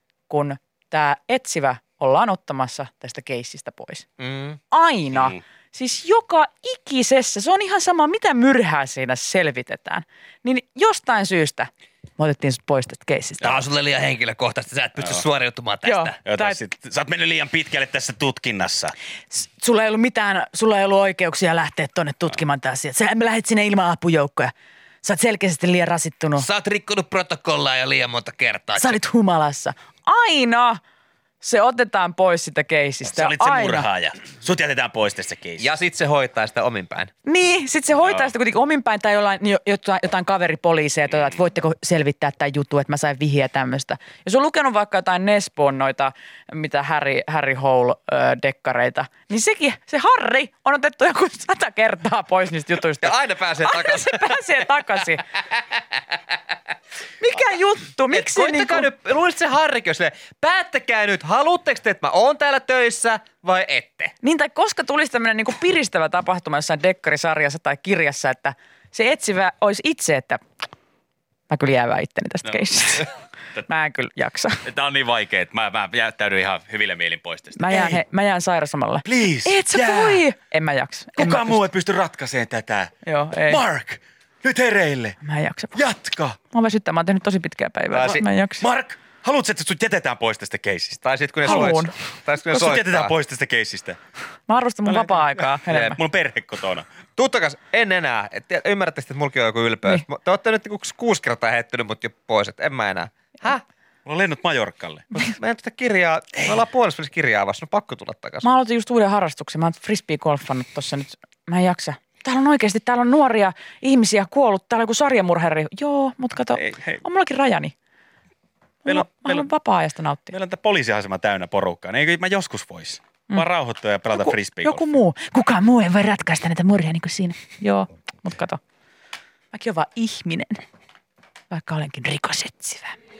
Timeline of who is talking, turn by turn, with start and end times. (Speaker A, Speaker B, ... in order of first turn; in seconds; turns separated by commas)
Speaker A: 0.3-4.1, Speaker B: 4.2-4.6, Speaker A: 4.7-13.6, Speaker B: 13.4-16.2, Speaker A: 15.8-16.6, Speaker C: 16.2-18.9, Speaker A: 19.3-24.5, Speaker A: 25.0-26.5, Speaker B: 26.4-29.0, Speaker A: 28.8-30.8, Speaker A: 31.4-33.9, Speaker C: 33.1-35.7, Speaker B: 35.6-37.1, Speaker A: 37.2-55.2, Speaker B: 53.0-54.5, Speaker B: 55.8-56.4, Speaker A: 57.2-58.9, Speaker B: 58.1-64.1, Speaker A: 64.2-70.4, Speaker A: 71.5-73.1, Speaker A: 73.7-74.6, Speaker C: 74.6-78.0, Speaker A: 77.6-81.6, Speaker C: 79.0-80.2, Speaker C: 81.2-82.9, Speaker A: 83.0-83.6, Speaker C: 83.5-85.2, Speaker A: 85.2-85.8, Speaker C: 85.7-86.4, Speaker A: 86.5-88.7, Speaker B: 87.9-88.3, Speaker C: 88.6-91.0, Speaker B: 91.0-93.1, Speaker A: 91.5-91.9, Speaker C: 92.5-94.0, Speaker A: 94.5-96.0, Speaker B: 95.4-96.0, Speaker C: 95.7-96.9, Speaker B: 97.2-103.6, Speaker C: 104.1-105.1, Speaker B: 105.1-108.5, Speaker A: 108.4-117.7, Speaker C: 116.6-117.0, Speaker A: 118.8-120.3, Speaker C: 118.9-119.5, Speaker C: 120.3-124.8, Speaker A: 124.1-128.6, Speaker A: 129.5-130.6, Speaker A: 131.5-133.0